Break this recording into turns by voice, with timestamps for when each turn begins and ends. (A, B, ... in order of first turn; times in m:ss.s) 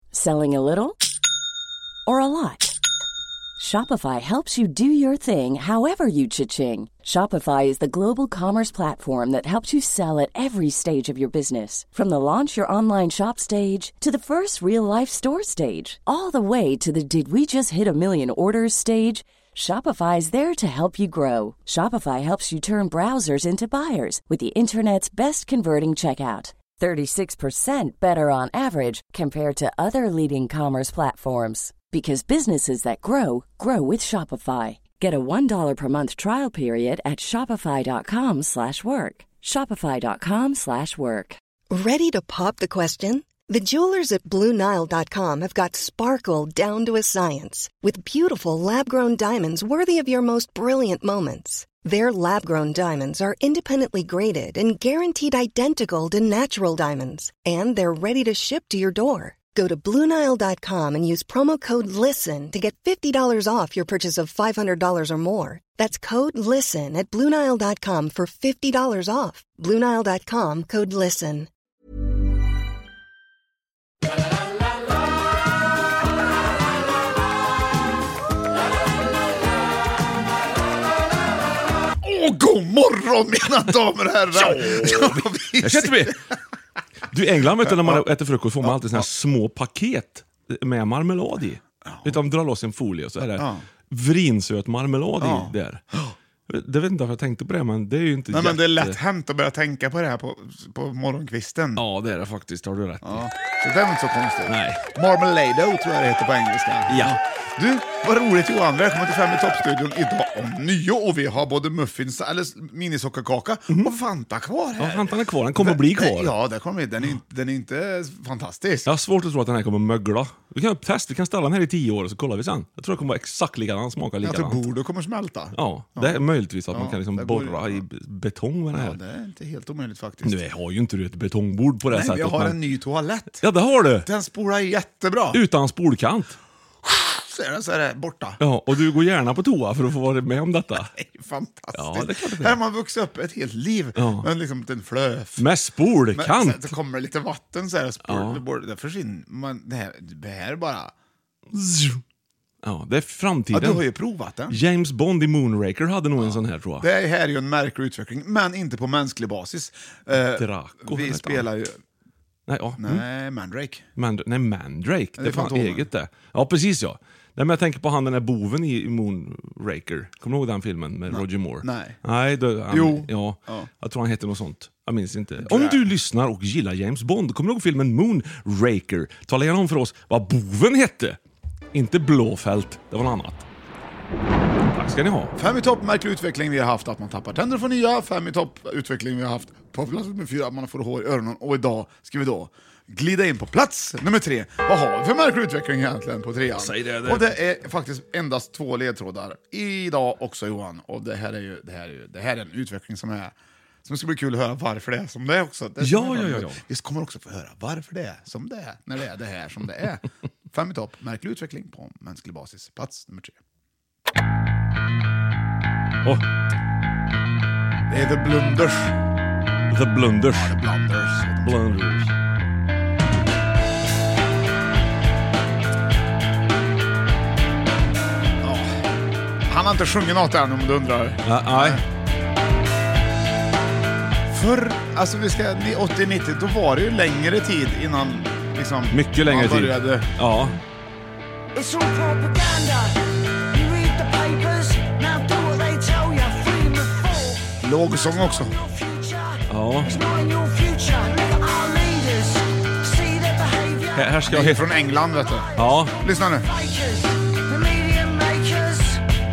0:00.1-0:01.0 A
0:02.0-0:02.8 A
0:03.6-0:41.4 A
0:41.7-1:11.5 B
1:22.0-1:26.4 C
1:24.4-1:26.2 D
1:27.1-1:35.8 D
1:27.7-1:28.0 C
1:28.6-1:29.0 C
1:31.8-1:32.2 C
1:33.4-1:33.6 C
1:35.2-1:36.1 C
1:36.5-1:39.0 D
1:38.3-1:41.8 C
1:41.8-1:43.3 D
1:43.0-1:58.9 C
1:44.5-1:44.8 D
1:46.9-1:47.2 D
1:54.8-1:56.3 D
1:58.8-2:04.6 D
2:04.2-2:07.8 C
2:05.5-2:09.0 D
2:08.7-2:10.4 C
2:10.2-2:12.6 D
2:11.9-2:13.4 C
2:13.4-2:14.1 D
2:14.0-2:15.4 C
2:15.3-2:16.4 D
2:16.8-2:18.4 C
2:18.4-2:20.9 D
2:20.8-2:25.5 C
2:21.7-2:22.6 D
2:24.0-2:24.2 D
2:25.4-2:26.7 D
2:26.1-2:30.9 C
2:28.0-2:28.4 D
2:31.5-2:32.0 D
2:32.6-2:33.9 D
2:33.5-2:34.6 C
2:34.5-2:36.9 D
2:36.2-2:41.8 C
2:40.2-2:41.5 D
2:42.5-2:43.0 D
2:42.8-2:43.8 C
2:44.0-3:01.2 D
2:45.2-2:45.9 C
2:51.1-2:52.0 C
2:52.7-2:53.7 C
2:55.4-2:55.8 C
3:01.7-3:03.4 D
3:04.7-3:05.3 D
3:05.4-3:23.3 C
3:16.5-3:17.3 D
3:23.8-3:33.4 C
3:25.8-3:26.6 D
3:37.9-3:38.9 C
3:39.7-3:40.6 D
3:40.3-3:41.7 C
3:41.4-3:42.1 D
3:48.4-3:48.8 C
3:49.5-3:51.8 C
3:51.2-3:51.8 D
3:54.3-4:00.1 C
3:58.9-4:00.6 D
4:01.5-4:03.0 E
4:03.5-4:07.5 E
4:07.6-4:08.6 C
4:08.6-4:14.1 E
4:09.5-4:10.0 D
4:13.9-4:14.7 D
4:14.3-4:16.5 C
4:15.5-4:16.0 D
4:16.5-4:19.0 E